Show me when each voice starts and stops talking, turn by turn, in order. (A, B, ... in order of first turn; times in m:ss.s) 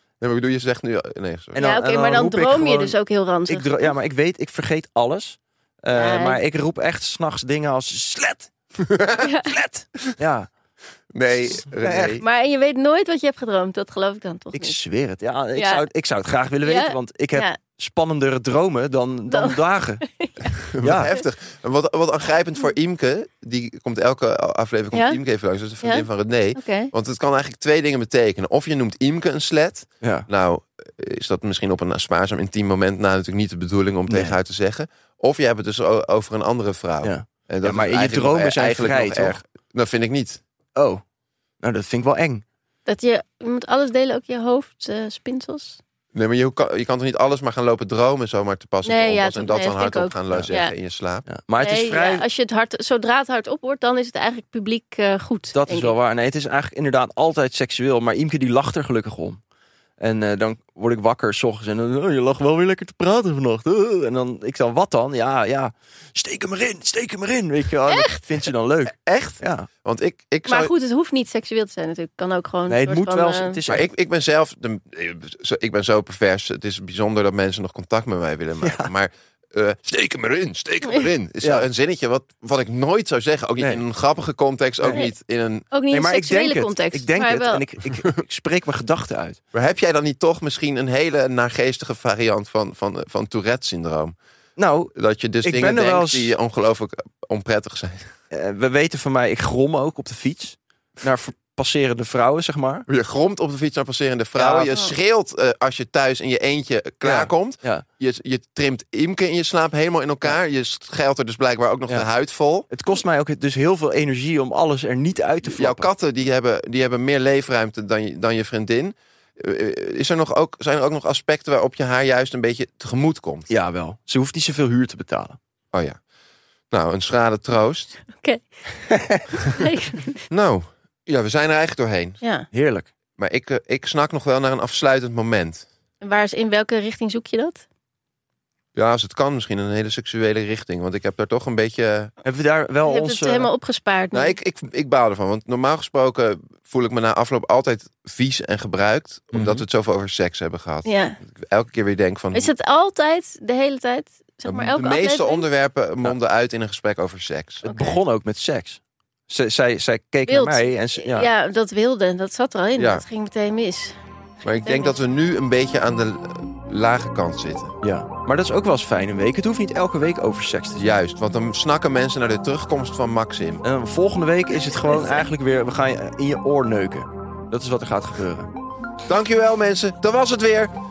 0:00.2-0:01.6 A
0:01.5-0:03.0 B
0:01.6-0:03.9 C
0:03.5-0:08.5 B
0:05.9-0:06.4 C
0:08.8-0:09.3 A
0:09.2-0:09.6 C
0:09.5-0:10.5 B
0:11.1-0:12.2 A
0:11.7-0:12.2 B
0:12.2-0:14.8 C
0:14.5-0:20.0 B
0:15.6-0:15.9 C
0:16.6-0:17.6 C
0:19.3-0:20.5 C
0:20.6-0:40.4 A
0:20.8-0:21.1 B
0:24.9-0:25.2 C
0:25.8-0:26.9 C
0:30.0-0:30.3 B
0:34.1-0:34.4 B
0:37.0-0:39.4 B
0:40.8-0:41.0 B
0:41.6-0:42.4 B
0:42.9-0:45.8 C
0:46.1-0:51.3 A
0:48.8-0:50.7 C
0:51.3-0:52.2 B
0:51.6-0:56.0 C
0:55.5-0:59.4 B
1:00.0-1:09.7 B
1:08.9-1:10.7 A
1:10.5-1:13.6 C
1:12.7-1:13.9 B
1:13.7-1:25.7 A
1:18.6-1:18.9 B
1:21.4-1:21.7 B
1:25.7-1:27.6 C
1:25.9-1:29.4 B
1:29.5-1:34.2 A
1:34.6-1:34.9 B
1:35.0-1:38.1 A
1:35.4-1:36.4 B
1:38.3-1:42.9 B
1:42.9-1:52.7 A
1:44.4-1:44.7 B
1:47.0-1:47.8 B
1:52.7-1:55.9 B
1:55.4-2:03.5 A
2:03.5-2:05.4 B
2:05.7-2:06.0 A
2:06.7-2:08.0 A
2:08.2-2:08.4 C
2:08.9-2:09.2 B
2:09.5-2:10.2 C
2:10.3-2:12.2 A
2:12.2-2:12.5 C
2:12.5-2:12.9 B
2:13.2-2:15.7 A
2:16.0-2:17.6 C
2:18.8-2:22.1 A
2:22.2-2:23.5 B
2:22.8-2:24.4 C
2:24.1-2:32.5 A
2:29.3-2:29.6 B
2:30.9-2:31.2 C
2:32.3-2:35.5 C
2:34.5-2:37.6 A
2:37.6-2:41.3 B
2:37.7-2:38.0 C
2:40.3-2:44.0 C
2:42.8-2:43.0 A
2:44.4-2:47.7 A
2:44.6-2:45.0 C
2:47.8-2:50.9 B
2:50.8-2:53.6 A
2:53.6-2:58.5 B
2:59.1-3:00.7 A